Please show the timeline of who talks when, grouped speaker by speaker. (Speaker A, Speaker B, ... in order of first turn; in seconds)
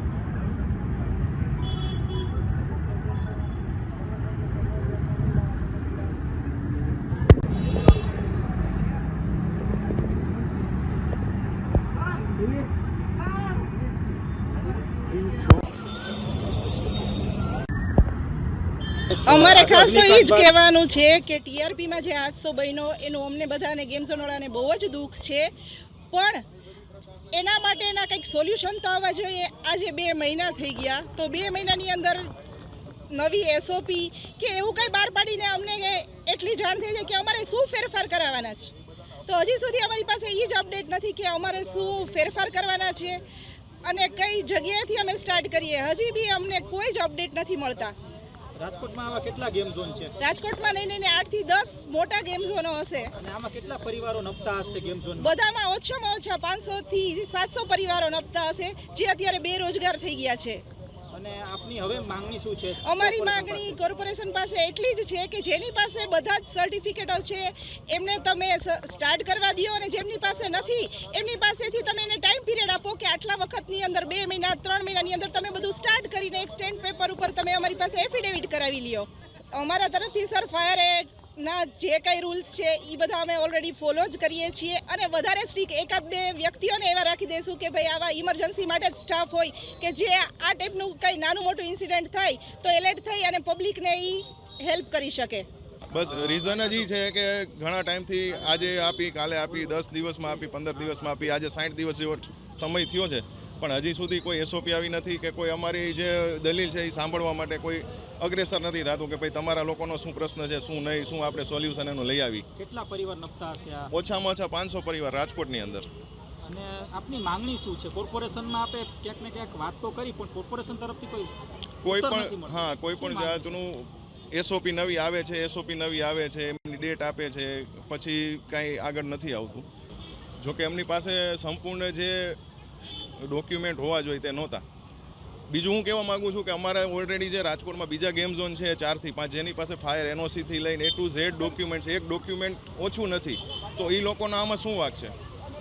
Speaker A: 19.2-20.5, 48.6-50.1, 53.2-55.3, 61.1-63.8, 112.5-113.9, 116.4-121.3, 121.8-123.5
Speaker B: 19.3-25.5, 26.1-26.4, 27.3-32.3, 33.1-38.7, 39.2-43.2, 43.8-47.9, 50.2-53.1, 55.2-60.6, 62.8-95.5
Speaker C: 95.9-112.5, 113.9-115.9, 121.8-129.7, 130.4-134.6, 135.5-145.1